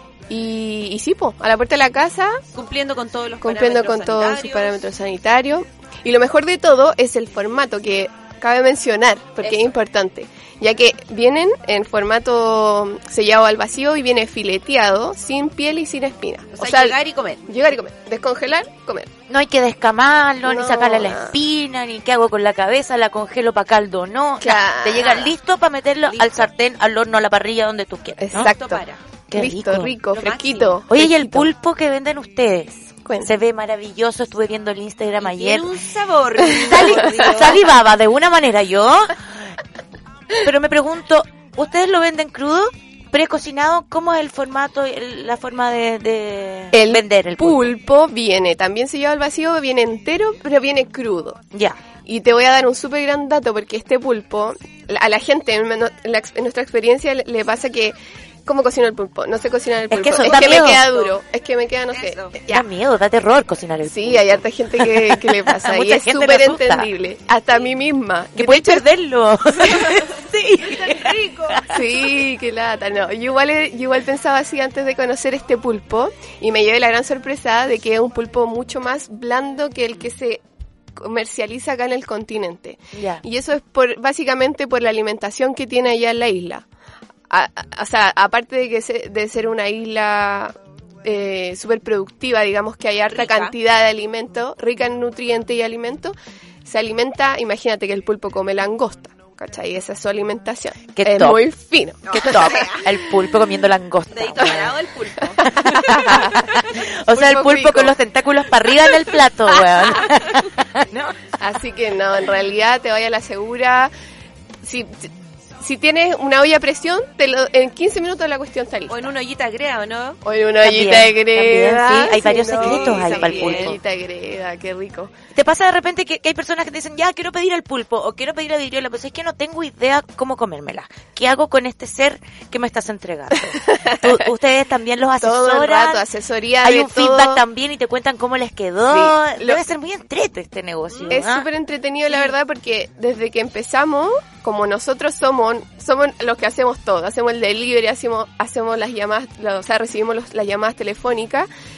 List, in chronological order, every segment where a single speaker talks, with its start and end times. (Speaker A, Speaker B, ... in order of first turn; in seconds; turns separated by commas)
Speaker A: 0.3-2.4, Speaker B: 2.5-4.8, Speaker A: 3.4-19.1, Speaker B: 9.4-9.7, Speaker B: 16.5-17.5, Speaker C: 19.3-28.5, Speaker A: 20.4-21.4, Speaker A: 24.4-25.3, Speaker B: 26.1-26.5, Speaker A: 28.2-31.5, Speaker B: 28.4-29.0, Speaker C: 29.3-29.9, Speaker B: 30.1-30.8, Speaker C: 30.9-35.7, Speaker A: 33.0-33.3, Speaker B: 35.2-37.6, Speaker C: 36.7-39.2, Speaker C: 40.4-47.7, Speaker A: 46.7-51.4, Speaker A: 52.1-58.0, Speaker A: 58.5-62.7, Speaker C: 59.9-60.8, Speaker B: 60.2-61.2, Speaker B: 61.9-62.4, Speaker C: 62.5-66.9, Speaker A: 63.9-68.9, Speaker C: 68.4-71.7, Speaker B: 70.8-71.7, Speaker A: 71.7-80.4, Speaker A: 81.0-86.7, Speaker C: 82.9-83.2, Speaker A: 87.3-102.7, Speaker B: 93.1-93.5, Speaker C: 101.0-101.4, Speaker B: 102.1-102.8, Speaker C: 102.1-104.7, Speaker B: 104.1-106.3, Speaker A: 105.4-106.4, Speaker C: 105.5-111.2, Speaker A: 107.1-108.0, Speaker A: 111.4-113.9, Speaker A: 114.6-119.1, Speaker B: 118.9-120.2, Speaker A: 120.2-125.1, Speaker C: 120.6-123.8, Speaker B: 122.5-123.8, Speaker C: 125.3-136.0, Speaker A: 133.7-134.2, Speaker A: 135.2-137.4, Speaker C: 136.6-141.5, Speaker A: 138.9-139.6, Speaker B: 140.9-141.2, Speaker A: 141.1-151.5